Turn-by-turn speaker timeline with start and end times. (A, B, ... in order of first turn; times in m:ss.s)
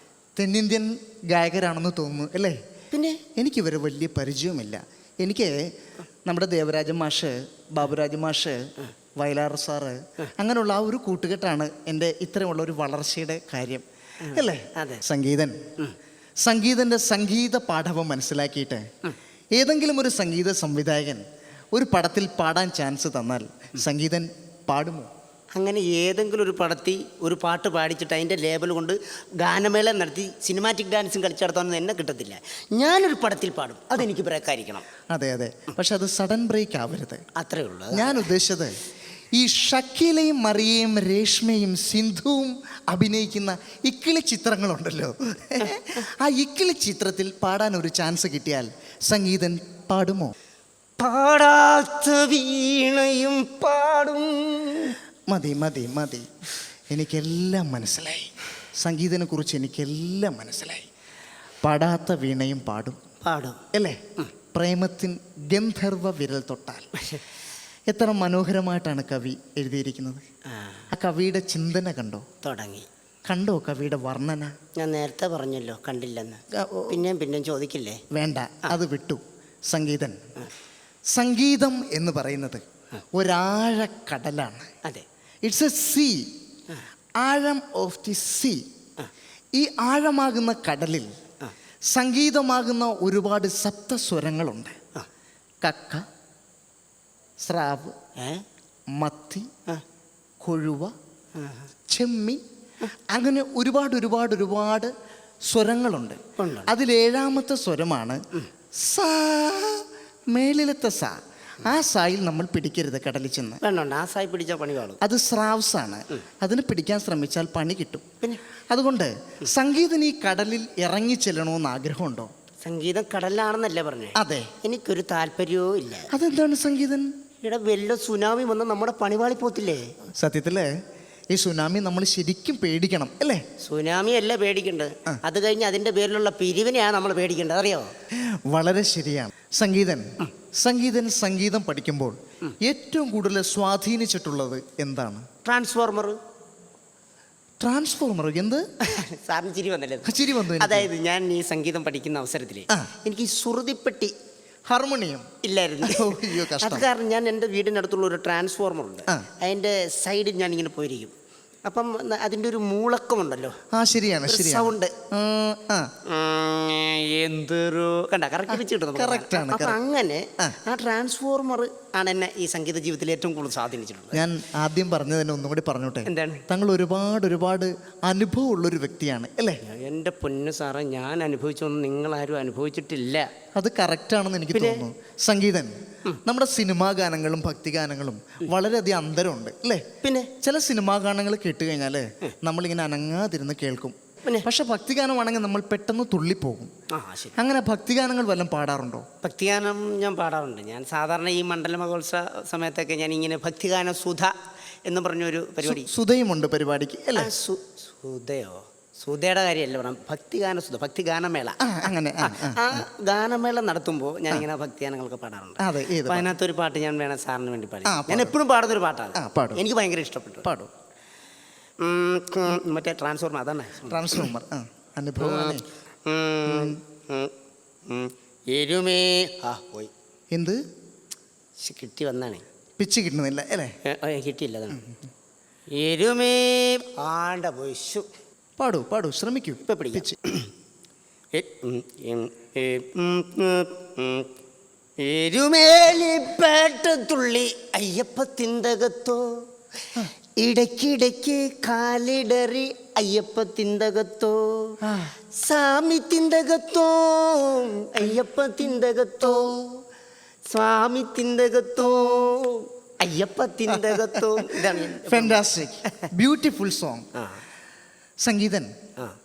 0:00.4-0:02.6 A
0:02.9-0:03.2 B
0:03.4-0:05.7 A
0:06.2-0:08.6 A
0:09.2-0:15.6 A
0:14.2-0:15.0 B
0:16.4-0:18.8 A
0:19.5-0:21.2 A
0:21.7-0:25.1 A
0:25.6-0:34.9 B
0:35.1-0:37.2 A
0:37.4-0:38.2 B
0:37.9-0:38.7 A
0:39.3-0:50.3 A
0:51.0-0:55.0 B
0:55.3-0:56.2 A
0:56.9-1:00.9 A
1:01.6-1:03.0 A
1:03.2-1:03.6 B
1:03.7-1:04.0 A
1:04.5-1:06.9 A
1:07.9-1:10.2 A
1:10.5-1:10.8 B
1:10.9-1:12.2 A
1:12.4-1:12.9 B
1:13.3-1:14.5 A
1:14.8-1:18.0 B
1:16.6-1:17.0 A
1:18.1-1:20.2 A
1:21.1-1:22.6 A
1:23.2-1:24.7 A
1:25.4-1:26.3 A
1:27.2-1:28.6 A
1:29.6-1:31.1 A
1:31.9-1:34.8 A
1:35.6-1:36.0 A
1:37.4-1:37.9 A
1:38.2-1:38.4 B
1:38.9-1:39.5 A
1:40.4-1:40.9 A
1:41.4-1:41.7 B
1:41.9-1:42.4 A
1:43.1-1:44.9 A
1:45.5-1:48.2 A
1:46.4-1:46.7 B
1:48.8-1:53.6 A
1:53.6-1:55.0 B
1:55.0-1:58.0 A
1:58.7-2:02.3 A
2:02.6-2:06.1 B
2:04.2-2:04.5 A
2:06.1-2:07.1 A
2:07.4-2:09.9 B
2:10.2-2:10.7 A
2:11.3-2:13.4 A
2:13.6-2:17.9 B
2:18.3-2:20.1 A
2:20.6-2:25.2 A
2:25.4-2:26.2 B
2:27.6-2:28.6 A
2:28.9-2:34.1 B
2:30.0-2:30.9 A
2:34.7-2:35.3 A
2:35.4-2:41.1 B
2:35.8-2:36.8 A
2:41.6-2:43.5 B
2:43.7-2:45.9 A
2:44.3-2:44.9 B
2:46.1-2:54.2 B
2:48.5-2:49.8 A
2:54.1-2:59.6 A
2:56.0-2:56.4 B
2:59.6-3:03.3 B
3:03.6-3:09.8 A
3:04.5-3:04.8 B
3:10.0-3:10.3 B
3:10.4-3:16.7 A
3:16.9-3:17.4 B
3:17.4-3:19.0 A
3:19.2-3:24.3 B
3:24.8-3:25.9 B
3:25.6-3:27.3 A
3:27.2-3:40.5 B
3:31.6-3:32.8 A
3:35.6-3:36.3 A
3:37.8-3:38.3 A
3:39.1-3:39.6 A
3:40.4-3:40.7 A
3:41.8-3:44.3 B
3:43.9-3:45.6 A
3:45.2-3:47.3 B
3:46.4-3:46.8 A
3:47.9-3:49.9 B
3:50.3-3:50.6 A
3:51.6-3:52.4 B
3:52.8-3:53.7 A
3:53.8-3:54.8 B
3:54.7-3:55.0 A
3:55.7-3:58.0 B
3:58.6-4:00.2 A
3:59.6-4:00.5 B
4:01.4-4:04.3 B
4:05.0-4:09.3 B
4:10.4-4:14.8 B
4:14.8-4:15.1 A
4:15.3-4:19.8 B
4:20.5-4:25.4 B
4:24.6-4:27.0 A
4:27.2-4:27.4 B
4:28.2-4:28.7 A